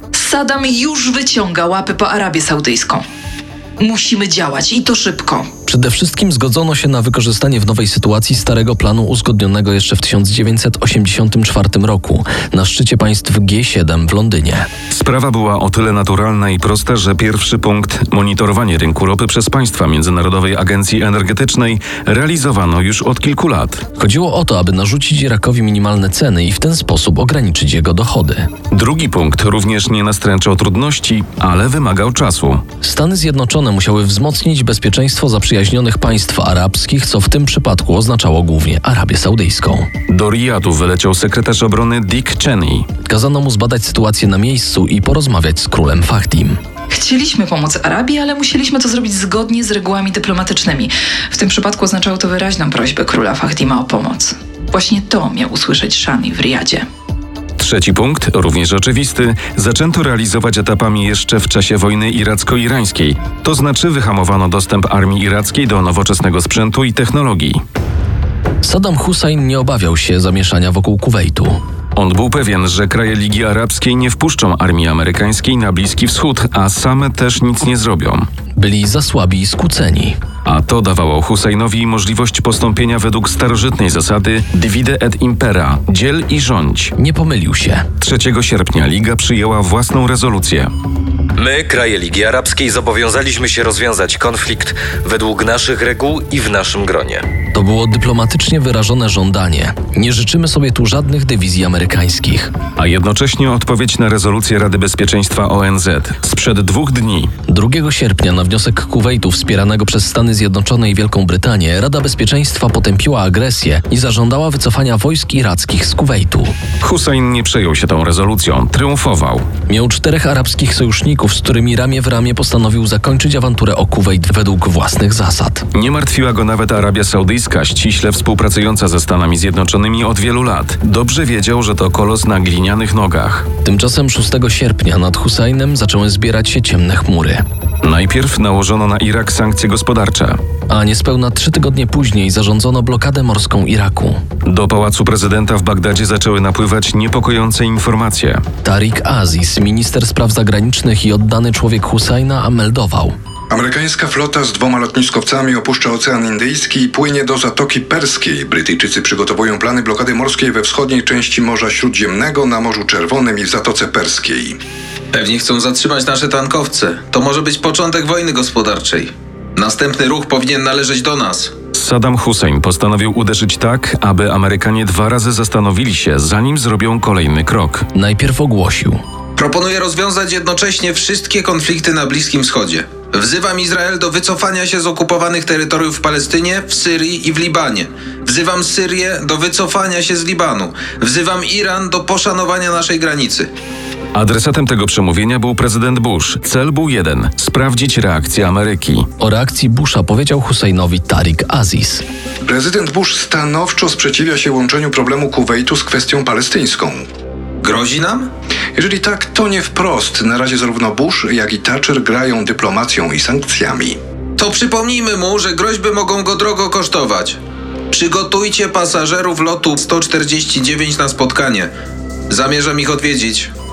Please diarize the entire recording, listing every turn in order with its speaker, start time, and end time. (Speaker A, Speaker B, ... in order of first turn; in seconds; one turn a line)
Speaker A: 0.1-3.0
Speaker A: 3.8-5.5
Speaker B: 5.7-14.7
Speaker C: 14.9-23.9
Speaker B: 24.0-28.5
Speaker C: 28.7-32.6
Speaker B: 32.8-39.9
Speaker C: 40.1-42.9
Speaker B: 43.1-46.6
Speaker A: 46.9-56.8
Speaker C: 57.6-67.6
Speaker B: 68.6-71.6
Speaker C: 71.9-78.3
Speaker B: 78.5-80.2
Speaker C: 80.4-86.9
Speaker B: 87.0-87.9
Speaker C: 88.0-90.7
Speaker D: 91.4-97.2
Speaker B: 97.5-102.5
Speaker C: 102.8-107.3
Speaker B: 107.5-116.6
Speaker C: 116.8-119.5
Speaker B: 119.7-125.7
Speaker C: 125.7-133.5
Speaker B: 133.6-137.4
Speaker C: 137.8-140.4
Speaker B: 140.7-144.2
Speaker C: 144.4-148.4
Speaker B: 148.6-153.1
Speaker E: 153.5-164.6
Speaker F: 165.1-171.6
Speaker C: 171.7-177.8
Speaker B: 177.9-179.0
Speaker F: 179.3-193.5
Speaker C: 194.1-199.1
Speaker B: 199.2-202.0
Speaker E: 202.4-207.0
Speaker F: 207.6-208.3
Speaker E: 208.7-214.0
Speaker F: 214.4-217.4
Speaker F: 217.9-221.7
Speaker F: 222.3-223.5